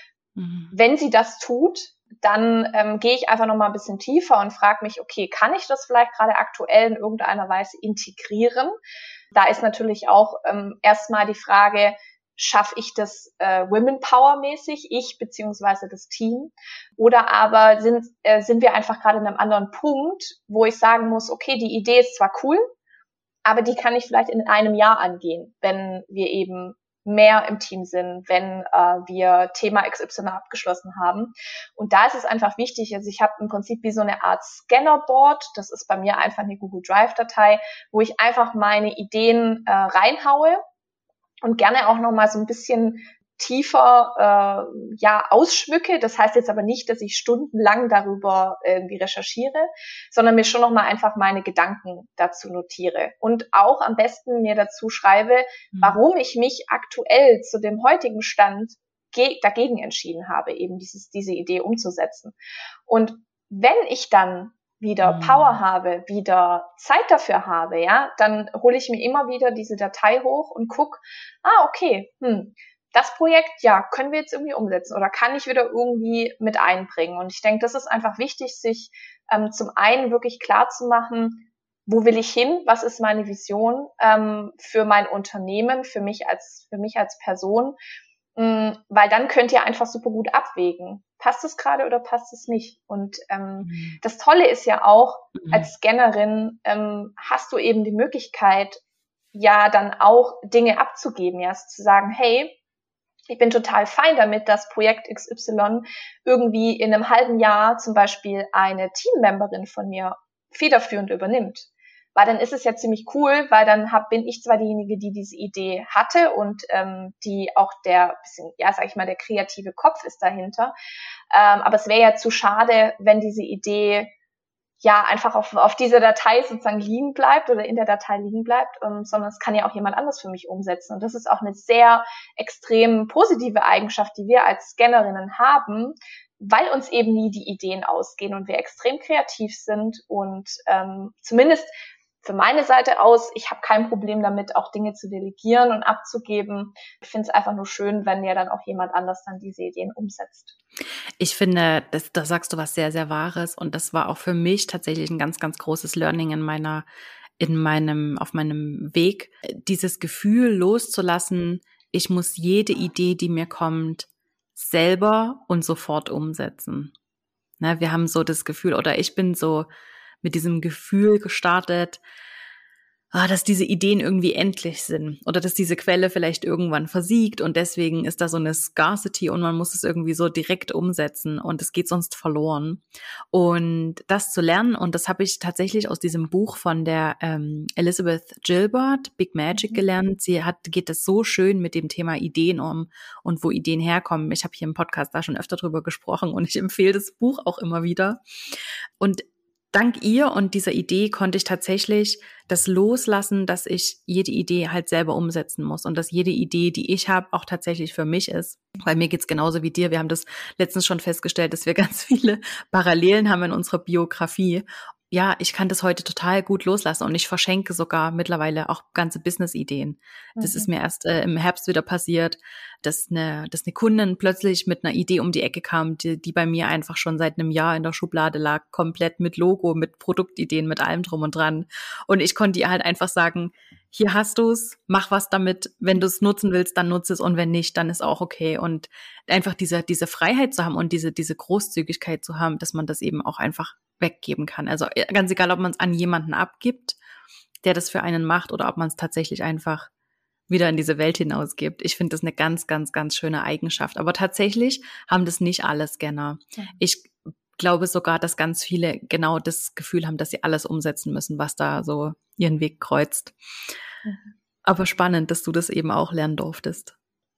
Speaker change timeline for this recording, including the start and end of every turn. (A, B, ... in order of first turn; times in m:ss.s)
0:00.4-0:00.7 A
0:00.7-0:08.8 B
0:09.3-0:22.6 B
0:23.4-0:40.6 B
0:41.4-1:02.4 B
0:55.7-0:56.0 A
1:02.9-1:27.8 B
1:05.0-1:05.6 A
1:28.4-1:38.8 B
1:33.6-1:34.0 A
1:35.4-1:35.7 A
1:39.3-1:42.6 B
1:43.3-2:00.7 B
2:01.3-2:04.1 B
2:04.8-2:21.7 B
2:22.2-2:30.6 B
2:31.2-2:36.8 A
2:37.4-2:46.9 A
2:47.6-2:49.7 A
2:50.2-2:52.0 A
2:53.1-3:18.2 A
3:09.5-3:09.8 B
3:19.0-4:07.0 A
3:40.4-3:40.7 B
4:07.6-4:09.9 A
4:10.5-4:23.4 A
4:24.0-4:24.3 B
4:24.7-4:26.9 A